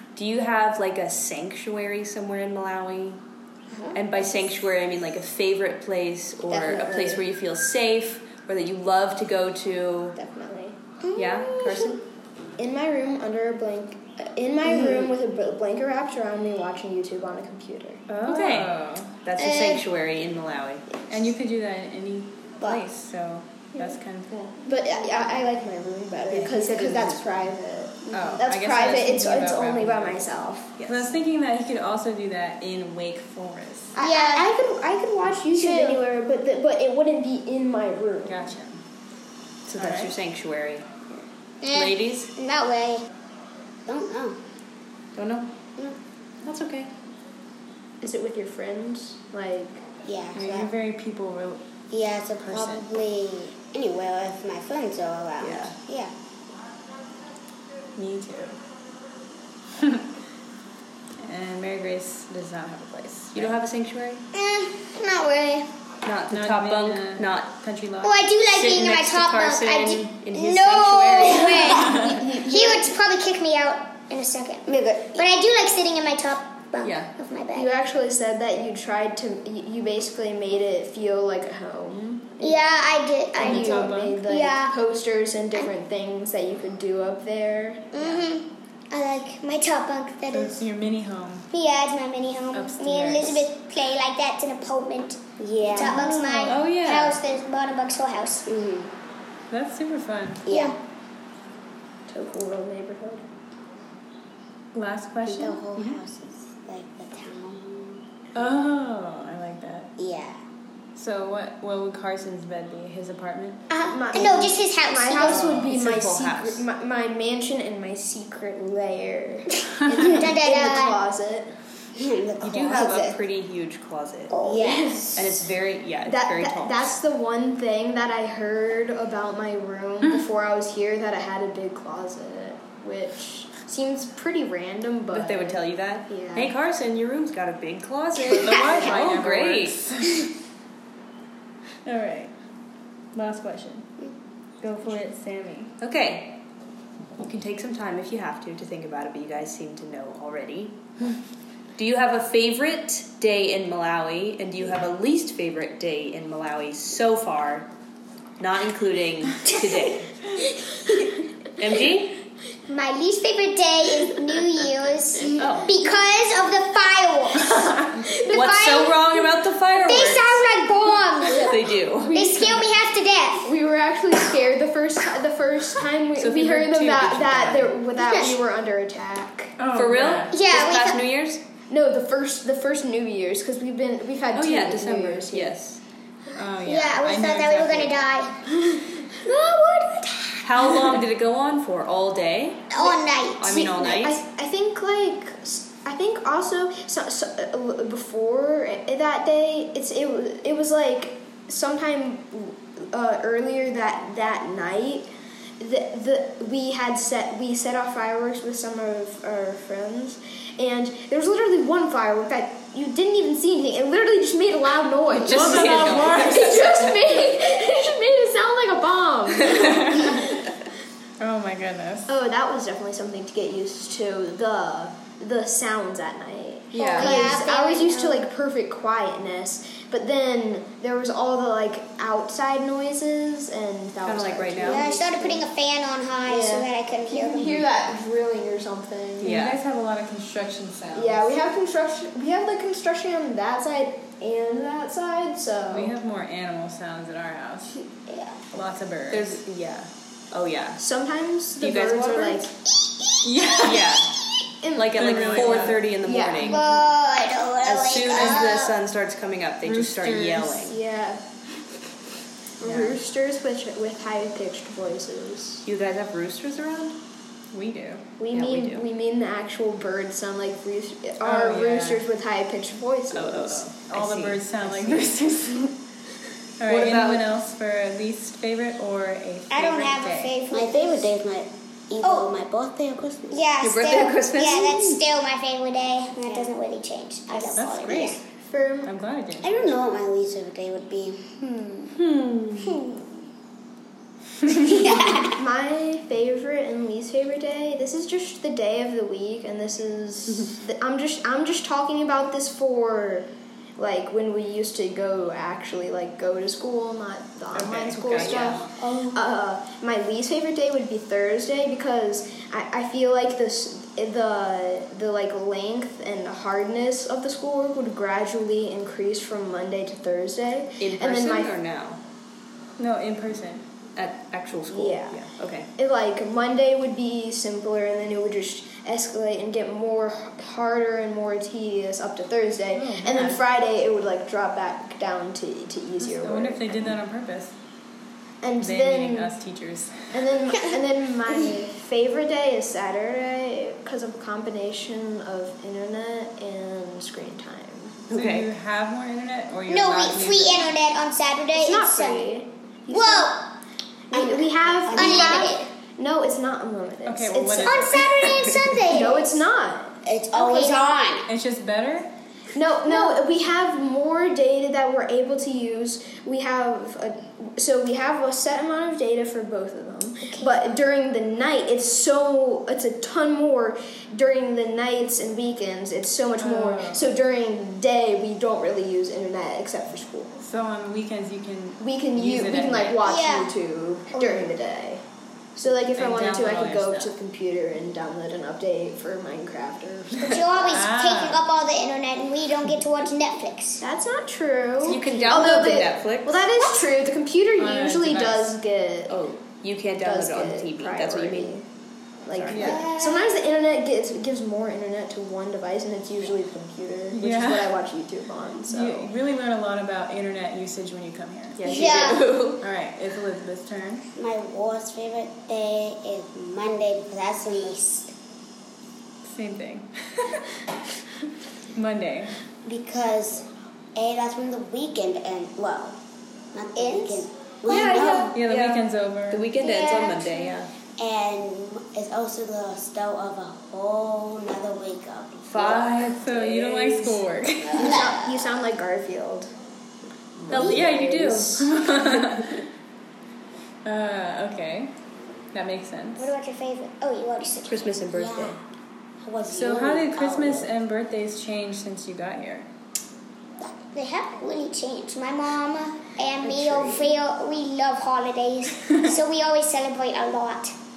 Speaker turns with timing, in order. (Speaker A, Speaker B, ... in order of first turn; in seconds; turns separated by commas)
Speaker A: 0.1-3.2, Speaker A: 3.9-10.2, Speaker B: 6.5-7.2, Speaker B: 10.2-10.8, Speaker C: 11.0-12.0, Speaker A: 11.2-12.0, Speaker B: 12.6-18.1, Speaker D: 18.1-19.1, Speaker A: 18.2-20.8, Speaker C: 19.4-19.7, Speaker D: 21.1-24.5, Speaker B: 23.8-30.7, Speaker A: 26.3-27.3, Speaker D: 28.1-34.0, Speaker A: 30.8-31.1, Speaker B: 34.0-38.5, Speaker C: 34.0-34.5, Speaker C: 35.5-36.0, Speaker D: 38.2-38.8, Speaker A: 39.7-40.9, Speaker D: 39.8-40.1, Speaker C: 41.6-43.0, Speaker A: 41.7-42.3, Speaker E: 43.9-44.4, Speaker A: 45.2-45.5, Speaker A: 46.4-46.9, Speaker B: 48.0-49.8, Speaker E: 50.0-50.7, Speaker D: 50.4-51.6, Speaker E: 51.9-56.1, Speaker D: 52.4-52.9, Speaker A: 55.4-55.8, Speaker D: 58.0-58.6, Speaker D: 59.8-60.1, Speaker D: 61.2-63.5, Speaker A: 63.3-64.2, Speaker C: 64.3-65.7, Speaker A: 66.0-67.5, Speaker D: 66.3-68.2, Speaker C: 68.0-77.7, Speaker A: 68.5-71.8, Speaker B: 71.5-72.9, Speaker E: 74.7-75.2, Speaker A: 76.8-77.1, Speaker B: 77.5-82.6, Speaker C: 82.4-84.8, Speaker B: 83.4-88.2, Speaker D: 83.4-84.2, Speaker C: 87.9-90.7, Speaker D: 90.3-91.5, Speaker C: 91.5-98.5, Speaker D: 92.5-93.5, Speaker E: 95.4-96.2, Speaker D: 95.7-97.2, Speaker E: 98.5-98.9, Speaker D: 99.5-100.4, Speaker E: 100.5-100.8, Speaker C: 100.5-100.8, Speaker B: 102.1-103.3, Speaker D: 104.8-106.0, Speaker E: 105.2-108.0, Speaker D: 108.3-109.9, Speaker E: 110.0-110.4, Speaker D: 111.0-113.6, Speaker C: 113.7-115.5, Speaker B: 113.9-121.5, Speaker A: 115.2-116.6, Speaker C: 119.9-121.0, Speaker E: 122.0-123.2, Speaker A: 122.4-124.3, Speaker C: 124.3-125.2, Speaker E: 124.4-125.2, Speaker A: 125.2-126.9, Speaker B: 126.1-136.5, Speaker A: 135.1-139.8, Speaker D: 138.3-140.3, Speaker D: 141.8-142.3, Speaker D: 143.1-143.9, Speaker D: 144.6-145.7, Speaker A: 145.8-146.4, Speaker A: 147.2-150.8, Speaker A: 151.8-157.7, Speaker A: 158.4-160.2, Speaker A: 161.6-162.2, Speaker C: 162.7-169.1, Speaker A: 165.4-165.7, Speaker A: 168.2-170.7, Speaker C: 169.8-173.5, Speaker A: 171.2-172.3, Speaker B: 172.0-172.6, Speaker B: 173.4-179.6, Speaker A: 176.2-177.8, Speaker C: 178.0-178.4, Speaker D: 179.6-180.3, Speaker A: 179.7-181.4, Speaker C: 180.3-181.0, Speaker B: 181.7-185.5, Speaker A: 184.3-185.8, Speaker D: 186.3-188.0, Speaker C: 186.6-188.3, Speaker C: 189.2-190.5, Speaker A: 190.4-192.7, Speaker C: 192.7-193.9, Speaker A: 193.4-194.2, Speaker B: 193.7-205.1, Speaker B: 205.6-220.5, Speaker D: 215.1-217.1, Speaker A: 215.2-216.5, Speaker D: 219.5-220.4, Speaker D: 221.2-222.1, Speaker B: 222.1-235.4, Speaker A: 226.7-227.3, Speaker C: 226.7-228.3, Speaker A: 234.0-234.9, Speaker C: 234.6-237.7, Speaker B: 236.3-239.4, Speaker D: 239.2-241.4, Speaker A: 239.2-239.6, Speaker B: 240.9-245.9, Speaker D: 245.7-247.8, Speaker C: 248.1-248.4, Speaker D: 248.5-249.4, Speaker A: 249.1-250.8, Speaker B: 250.8-252.5, Speaker A: 251.6-252.5, Speaker C: 253.0-253.5, Speaker D: 253.2-254.1, Speaker A: 253.6-254.2, Speaker B: 254.6-256.7, Speaker A: 254.8-256.6, Speaker D: 255.0-255.8, Speaker C: 256.4-258.8, Speaker A: 257.6-260.8, Speaker D: 259.6-260.7, Speaker B: 260.6-261.2, Speaker B: 262.6-265.6, Speaker A: 262.6-263.0, Speaker A: 265.6-267.0, Speaker D: 267.5-268.1, Speaker B: 268.2-273.7, Speaker A: 268.3-268.9, Speaker D: 271.2-272.0, Speaker A: 273.1-275.2, Speaker D: 273.9-275.8, Speaker D: 276.6-280.3, Speaker A: 276.6-277.3, Speaker C: 279.5-281.1, Speaker E: 279.8-283.4, Speaker C: 282.0-282.3, Speaker C: 283.3-288.2, Speaker A: 283.6-285.0, Speaker E: 286.2-286.5, Speaker E: 287.3-288.2, Speaker D: 287.6-288.2, Speaker B: 288.5-288.9, Speaker D: 288.8-289.5, Speaker E: 289.4-291.9, Speaker D: 292.0-292.7, Speaker E: 294.6-295.4, Speaker B: 295.2-321.5, Speaker A: 307.5-308.7, Speaker D: 307.9-308.6, Speaker E: 308.8-309.2, Speaker A: 320.8-322.0, Speaker D: 322.8-323.6, Speaker A: 324.0-325.7, Speaker B: 324.7-325.2, Speaker B: 325.8-336.9, Speaker D: 332.7-333.4, Speaker D: 336.0-337.5, Speaker B: 338.4-339.3, Speaker D: 338.6-340.2, Speaker B: 340.1-348.0, Speaker A: 348.1-348.5, Speaker D: 348.1-350.7, Speaker C: 349.7-353.5, Speaker B: 351.5-352.5, Speaker E: 352.9-353.3, Speaker B: 354.1-358.1, Speaker E: 354.1-355.6, Speaker C: 354.9-355.7, Speaker D: 357.1-358.5, Speaker C: 357.6-359.4, Speaker A: 358.4-358.8, Speaker B: 358.9-361.0, Speaker E: 360.1-361.3, Speaker D: 361.3-362.1, Speaker B: 362.5-380.4, Speaker C: 362.9-363.1, Speaker C: 370.2-370.6, Speaker D: 376.4-377.1, Speaker D: 380.4-383.2, Speaker B: 381.8-385.0, Speaker C: 383.1-383.5, Speaker C: 384.1-384.4, Speaker B: 385.6-390.8, Speaker D: 385.9-387.1, Speaker C: 390.2-393.8, Speaker D: 390.6-391.4, Speaker B: 393.8-399.2, Speaker A: 394.8-396.4, Speaker D: 397.6-398.5, Speaker A: 399.1-401.6, Speaker B: 400.0-401.6, Speaker B: 402.2-409.1, Speaker A: 402.3-402.7, Speaker D: 402.5-402.8, Speaker C: 402.5-403.4, Speaker D: 407.1-407.8, Speaker D: 408.7-411.6, Speaker A: 411.6-412.6, Speaker C: 411.6-412.3, Speaker E: 411.7-412.1, Speaker D: 412.5-414.1, Speaker E: 414.2-418.1, Speaker D: 419.2-420.6, Speaker D: 421.7-422.4, Speaker E: 422.6-426.0, Speaker E: 426.5-428.4, Speaker C: 426.8-427.3, Speaker B: 427.7-428.3, Speaker A: 427.7-430.7, Speaker D: 428.3-429.5, Speaker C: 429.6-430.4, Speaker E: 431.0-436.0, Speaker A: 435.5-437.2, Speaker D: 435.6-438.0, Speaker E: 437.7-438.1, Speaker B: 437.8-439.5, Speaker B: 440.5-441.7, Speaker A: 440.5-442.6, Speaker D: 440.5-442.6, Speaker D: 443.9-444.9, Speaker D: 445.5-446.3, Speaker C: 446.2-447.9, Speaker A: 447.7-448.6, Speaker E: 448.1-448.6, Speaker E: 449.2-450.7, Speaker D: 449.5-452.7, Speaker C: 453.9-460.8, Speaker B: 456.7-456.9